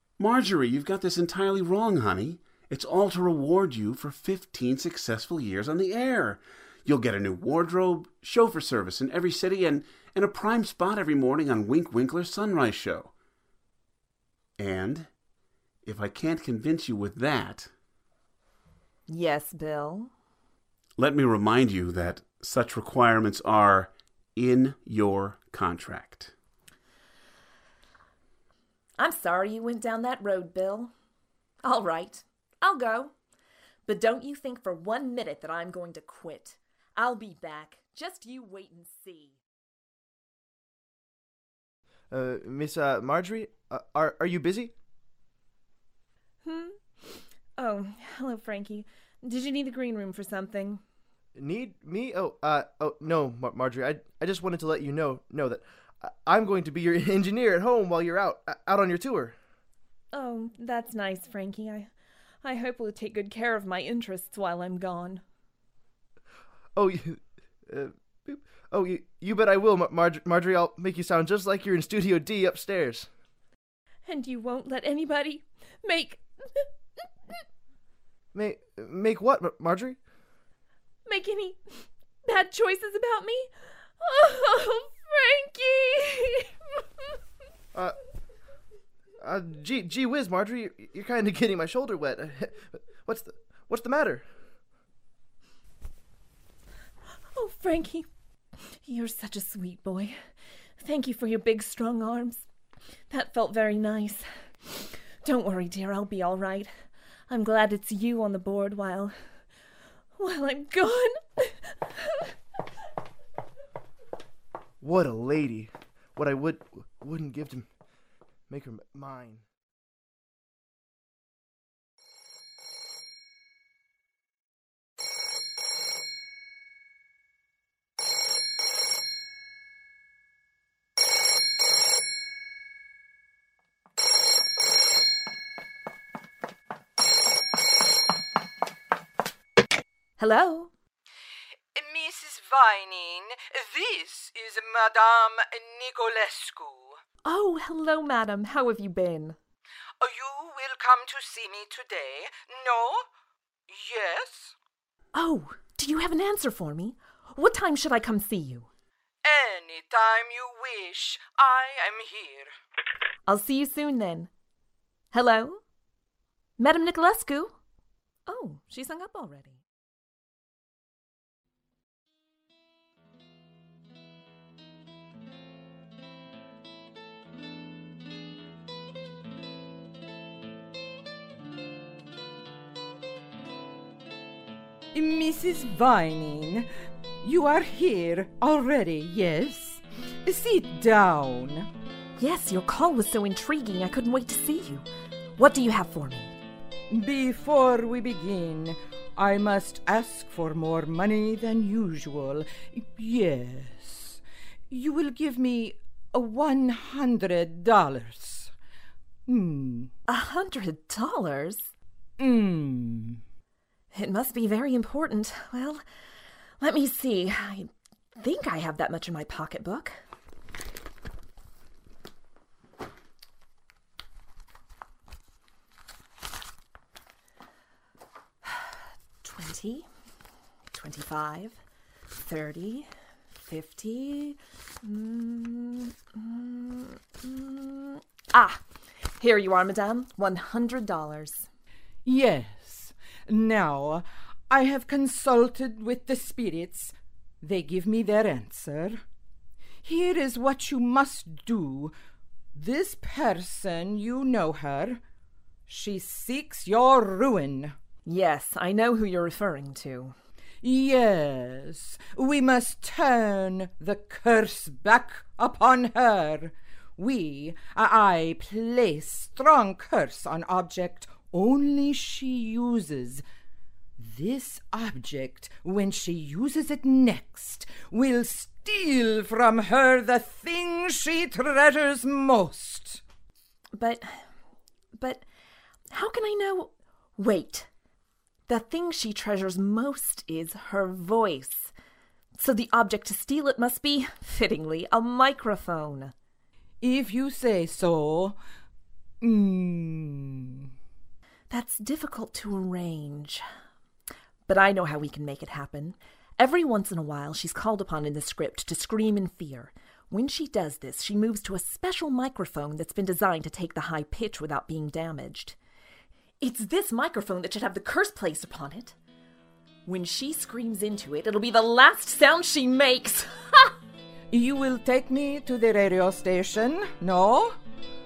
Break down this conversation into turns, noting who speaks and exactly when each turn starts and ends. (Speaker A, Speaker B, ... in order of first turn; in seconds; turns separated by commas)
Speaker A: 0.2-13.1, Speaker A: 14.6-15.1, Speaker A: 15.8-17.7, Speaker B: 19.1-20.1, Speaker A: 21.0-26.3, Speaker B: 29.0-30.9, Speaker B: 31.6-33.1, Speaker B: 33.9-39.4, Speaker C: 42.1-44.7, Speaker B: 46.4-50.8, Speaker C: 51.4-59.4, Speaker B: 60.1-61.9, Speaker B: 62.4-65.2, Speaker C: 66.7-73.1, Speaker B: 74.0-76.7, Speaker C: 78.3-80.0, Speaker B: 81.0-86.5, Speaker C: 89.2-94.3, Speaker B: 97.3-98.1, Speaker B: 98.8-100.2, Speaker B: 100.8-102.5, Speaker B: 103.1-109.2, Speaker B: 110.2-112.3, Speaker C: 114.8-117.7, Speaker C: 118.5-119.4, Speaker B: 140.2-140.7, Speaker D: 141.7-147.0, Speaker B: 147.2-149.4, Speaker D: 150.0-153.1, Speaker D: 153.7-154.5, Speaker B: 155.1-158.7, Speaker D: 159.2-162.5, Speaker B: 163.2-164.3, Speaker B: 165.1-165.6, Speaker B: 166.6-167.6, Speaker B: 168.2-169.6, Speaker D: 184.9-186.7, Speaker D: 187.2-191.7, Speaker B: 192.2-196.3, Speaker D: 196.9-208.5, Speaker D: 209.3-209.9, Speaker B: 210.1-211.7, Speaker D: 212.2-213.2, Speaker B: 213.9-215.8, Speaker B: 216.6-220.0, Speaker B: 228.4-229.9, Speaker B: 230.7-231.6, Speaker B: 232.2-232.9, Speaker B: 233.5-241.5, Speaker D: 242.0-249.0, Speaker D: 249.8-251.9, Speaker D: 252.5-255.0, Speaker D: 255.7-257.7, Speaker B: 258.1-260.1, Speaker D: 260.6-273.2, Speaker D: 274.0-283.0, Speaker B: 283.7-284.2, Speaker B: 284.9-285.2, Speaker B: 285.9-287.7, Speaker B: 288.5-291.7, Speaker B: 292.4-296.1, Speaker D: 296.8-298.4, Speaker D: 299.2-300.7, Speaker B: 301.5-303.4, Speaker B: 304.5-315.6, Speaker B: 316.4-318.9, Speaker B: 319.9-323.7, Speaker D: 324.3-327.6